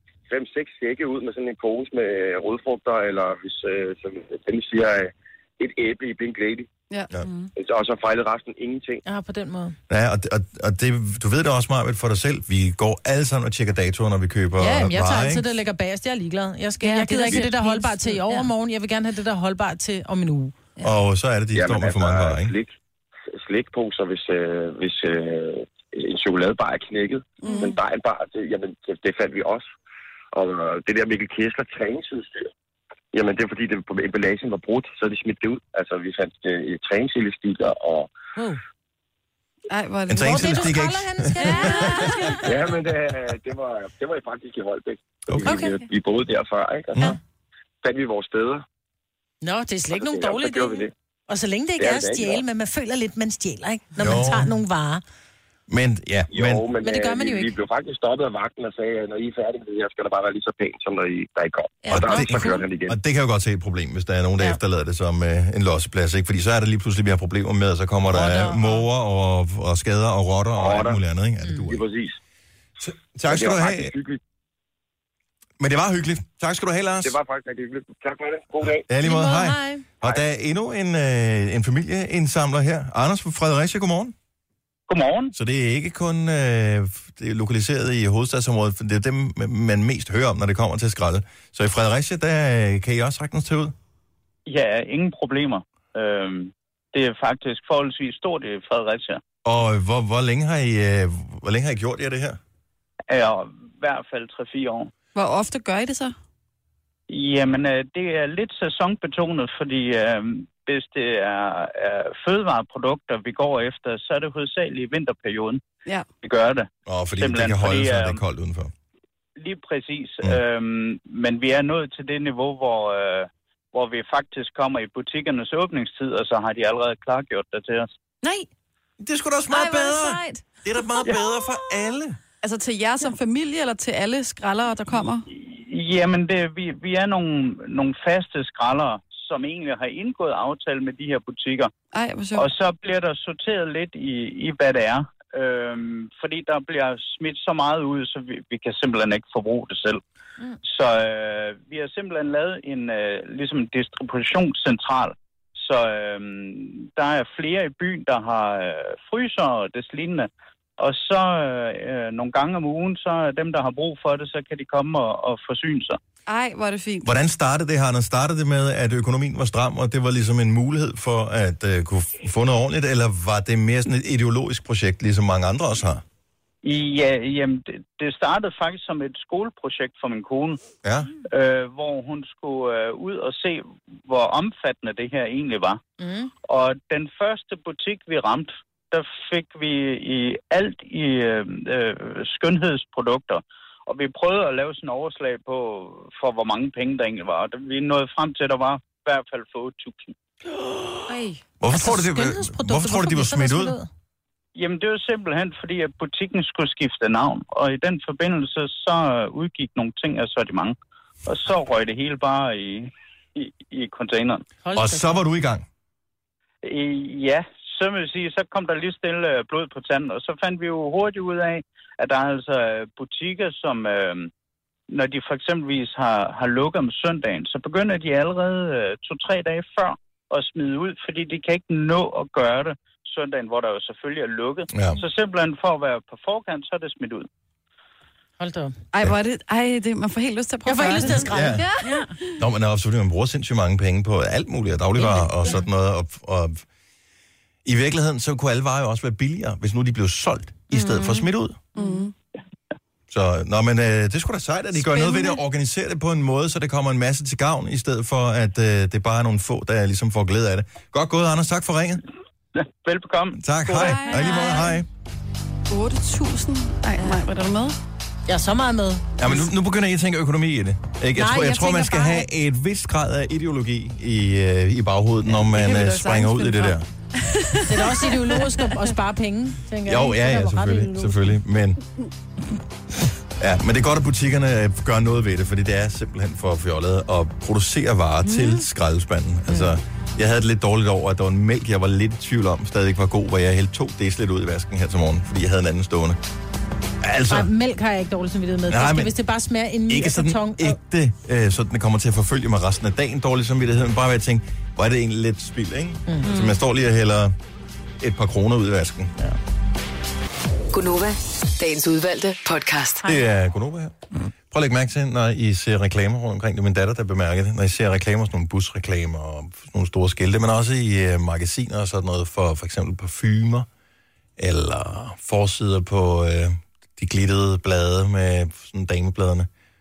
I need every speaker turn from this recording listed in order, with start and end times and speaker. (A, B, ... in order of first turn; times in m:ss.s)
0:00.3-0:06.7 A
0:07.2-0:07.5 B
0:07.6-0:09.0 A
0:09.0-0:09.8 C
0:09.9-0:15.4 D
0:14.6-0:20.6 C
0:16.8-0:18.5 B
0:20.8-0:22.5 D
0:21.5-0:22.7 A
0:23.3-0:29.6 A
0:27.4-0:27.7 E
0:27.4-0:27.8 B
0:30.3-0:32.5 A
0:33.1-0:38.1 A
0:39.7-0:40.6 E
0:40.1-0:42.1 D
0:40.2-0:42.6 C
0:41.4-0:42.4 B
0:42.4-0:47.2 A
0:45.3-0:45.6 D
0:45.4-0:45.8 C
0:47.8-0:48.6 A
0:49.4-0:55.0 C
0:49.9-0:50.9 A
0:51.8-0:52.4 A
0:54.0-0:54.5 D
0:55.7-0:56.6 D
0:56.3-1:03.0 A
0:56.8-0:57.5 C
1:01.8-1:02.5 B
1:01.9-1:11.8 D
1:02.0-1:02.6 C
1:08.1-1:08.8 B
1:10.5-1:11.0 A
1:11.4-1:11.7 C
1:11.7-1:12.2 A
1:12.8-1:13.9 D
1:13.3-1:14.2 A
1:15.6-1:17.1 D
1:17.0-1:18.9 A
1:18.9-1:24.1 D
1:19.0-1:19.8 C
1:24.9-1:25.3 F
1:25.3-1:33.7 D
1:34.4-1:39.2 F
1:39.4-1:42.4 D
1:43.1-1:44.9 F
1:45.1-1:46.1 E
1:47.1-1:55.6 F
1:56.2-1:58.2 F
1:56.9-1:58.7 D
1:59.4-2:07.9 F
2:08.2-2:08.5 B
2:09.0-2:12.2 D
2:09.5-2:10.4 B
2:12.4-2:15.2 E
2:15.3-2:21.7 F
2:21.9-2:22.5 E
2:22.4-2:30.0 F
2:30.6-2:40.3 F
2:40.8-2:46.0 F
2:46.3-2:47.1 E
2:47.0-2:56.0 D
2:56.6-3:00.6 F
3:00.8-3:01.1 D
3:01.3-3:05.8 F
3:06.0-3:06.3 C
3:06.5-3:20.1 F
3:21.1-3:21.4 B
3:21.6-3:23.8 D
3:21.7-3:23.9 C
3:24.5-3:34.4 F
3:34.6-3:35.2 C
3:34.7-3:35.6 D
3:36.6-3:44.3 F
3:44.9-3:57.3 F
3:54.7-3:55.0 D
3:58.4-3:58.8 C
3:58.9-4:02.3 E
4:00.6-4:01.6 C
4:01.0-4:02.1 B
4:01.3-4:01.7 D
4:02.4-4:06.6 D
4:05.0-4:05.6 C
4:07.6-4:11.6 D
4:10.7-4:11.3 B
4:11.7-4:12.1 E
4:13.1-4:22.0 D
4:22.6-4:24.4 F
4:23.4-4:24.9 D
4:23.8-4:24.6 E
4:23.8-4:24.5 C
4:25.7-4:27.8 E
4:28.3-4:29.4 C
4:29.2-4:36.9 D
4:31.2-4:32.3 C
4:35.3-4:36.8 E
4:37.6-4:41.4 C
4:39.9-4:41.8 D
4:43.4-4:56.2 D
4:48.2-4:48.6 B
4:57.0-4:57.5 D
4:57.3-5:00.8 C
4:58.7-4:59.1 D
4:59.9-5:07.3 D
5:06.2-5:06.6 B
5:08.0-5:09.1 D
5:10.7-5:13.0 G
5:13.0-5:13.9 D
5:14.5-5:23.7 D
5:24.4-5:29.5 D